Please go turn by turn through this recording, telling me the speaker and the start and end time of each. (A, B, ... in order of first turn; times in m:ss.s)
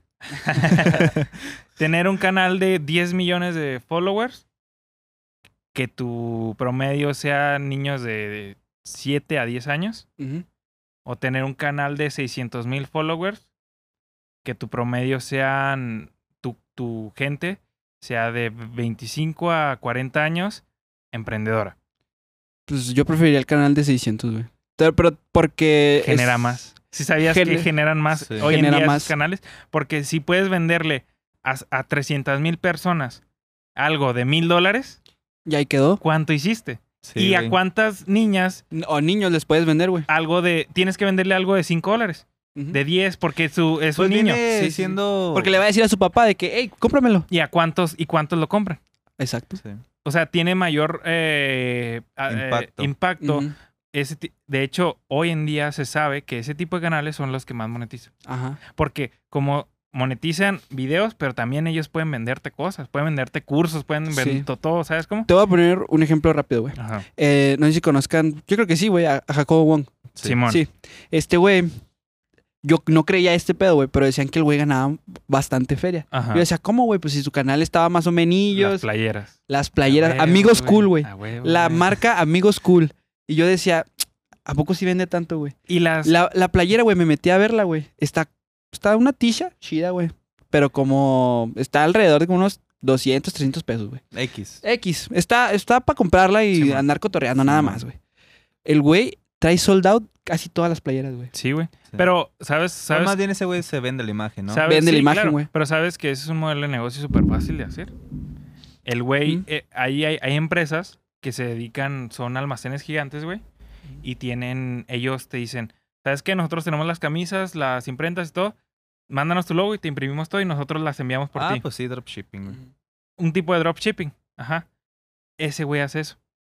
0:00.3-0:04.4 A
0:00.4-0:01.1 B
0:05.7-0:10.0 A
0:10.2-0:10.4 B
0:11.0-0:13.4 A
0:14.4-0:21.7 A
0:22.7-0:26.7 B
0:26.0-0:33.2 A
0:27.3-0:27.7 B
0:28.2-0:28.5 C
0:28.4-0:29.1 B
0:33.8-0:35.0 A
0:35.4-0:36.0 B
0:36.0-0:38.6 A
0:37.0-0:37.6 C
0:38.7-0:40.1 B
0:40.1-0:44.4 A
0:44.0-0:45.6 C
0:44.5-0:47.2 B
0:47.3-0:48.8 A
0:49.2-0:49.6 B
0:50.0-0:58.1 A
0:52.3-0:52.9 C
0:53.2-0:53.5 B
0:58.2-0:58.6 B
0:58.7-1:05.3 A
1:04.1-1:04.5 B
1:05.3-1:09.9 B
1:06.8-1:07.0 A
1:10.2-1:10.6 A
1:10.5-1:11.7 B
1:12.6-1:18.8 B
1:16.1-1:16.4 A
1:18.5-1:22.0 A
1:19.5-1:34.0 B
1:25.7-1:26.1 A
1:34.1-1:34.6 C
1:34.6-1:38.0 B
1:37.4-1:37.8 C
1:38.6-1:41.3 B
1:41.3-1:43.1 A
1:42.9-1:44.7 C
1:44.5-1:47.9 A
1:44.7-1:45.5 B
1:48.8-1:53.4 A
1:54.0-1:58.5 A
1:59.1-2:01.6 A
2:01.4-2:02.6 C
2:03.2-2:04.6 A
2:05.4-2:06.2 A